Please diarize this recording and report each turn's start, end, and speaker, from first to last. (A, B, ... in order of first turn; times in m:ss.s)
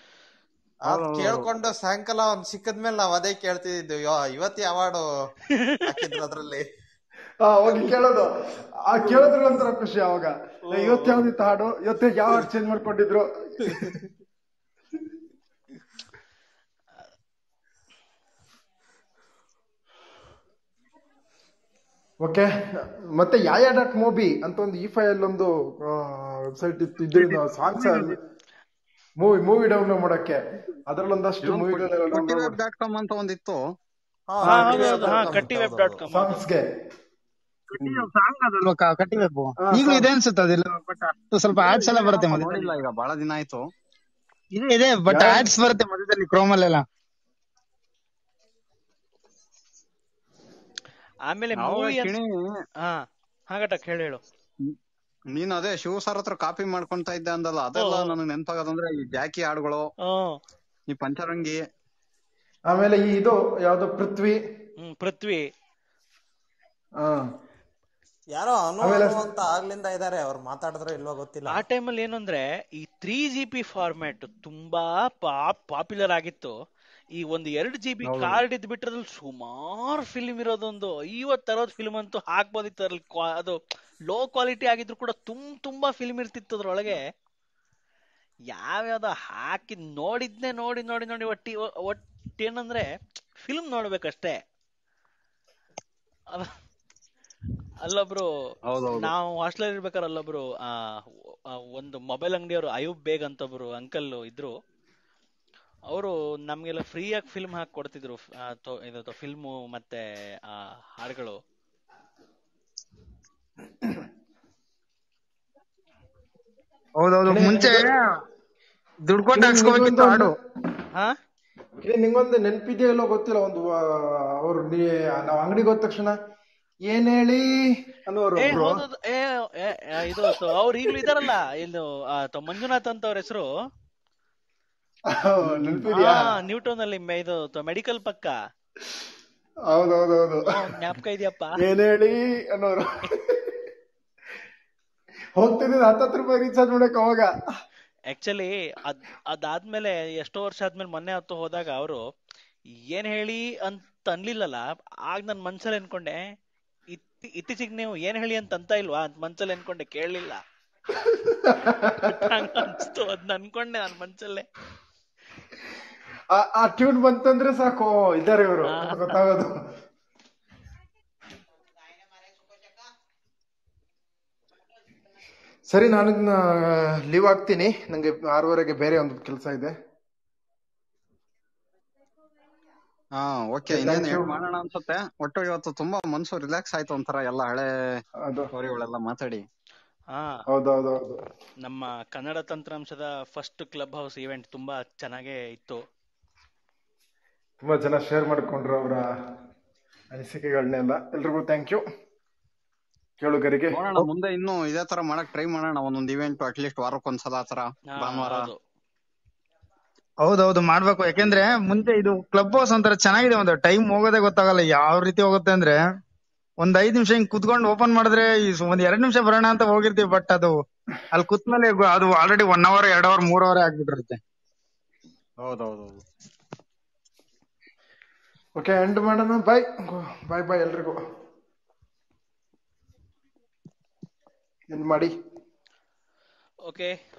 0:00.9-0:05.0 A
0:05.8-0:06.6 A
0:07.4-0:08.3 B
0:08.8-0:14.0 B
0:22.2-0:28.2 B
0:29.2-0:32.6 B
0:31.4-0:33.6 C
0:34.3-0:36.0 A
0:34.4-0:35.1 B
0:34.5-0:36.4 D
0:36.1-0:36.7 B
0:37.7-0:42.7 E
0:37.8-0:38.1 B
0:39.6-0:40.1 B
0:41.6-0:43.6 C
0:44.5-0:46.8 E
0:45.1-0:45.5 B
0:51.3-0:52.1 D
0:51.6-0:52.5 C
0:52.8-0:54.2 D
0:55.3-0:59.8 C
0:57.8-0:58.1 D
1:00.1-1:00.4 D
1:00.9-1:01.6 C
1:02.7-1:04.4 B
1:04.8-1:05.5 D
1:07.0-1:07.3 B
1:08.3-1:11.6 A
1:08.8-1:09.2 B
1:11.5-1:16.5 D
1:17.2-1:23.6 D
1:24.1-1:27.0 D
1:28.5-1:32.9 D
1:33.4-1:34.4 D
1:37.8-1:38.3 D
1:38.7-1:39.1 C
1:39.0-1:41.0 D
1:41.5-1:44.5 D
1:45.9-1:51.4 D
1:57.0-1:58.0 E
1:57.3-1:57.9 B
1:59.1-2:00.3 E
1:59.3-2:00.3 B
2:01.8-2:06.2 B
2:06.9-2:07.4 B
2:08.1-2:08.8 B
2:08.4-2:13.5 D
2:15.1-2:16.3 B
2:15.9-2:18.3 D
2:19.7-2:20.8 B
2:20.5-2:21.6 D
2:21.6-2:23.5 B
2:25.4-2:27.3 B
2:28.1-2:32.0 D
2:32.7-2:36.2 D
2:36.9-2:40.4 D
2:41.0-2:42.7 B
2:42.0-2:44.5 D
2:46.3-2:49.6 B
2:48.7-2:49.2 D
2:55.7-2:59.7 B
3:03.2-3:08.0 C
3:03.7-3:04.3 B
3:08.5-3:09.4 C
3:10.1-3:10.4 D
3:10.5-3:11.2 B
3:11.6-3:15.8 D
3:17.6-3:19.0 B
3:20.1-3:21.8 B
3:23.2-3:24.1 B
3:23.7-3:28.5 C
3:28.0-3:28.6 D
3:30.2-3:35.8 E
3:36.6-3:40.6 E
3:41.1-3:44.2 E
3:45.4-3:46.0 C
3:48.6-3:51.0 B
3:54.7-3:55.1 B
3:56.7-3:57.0 D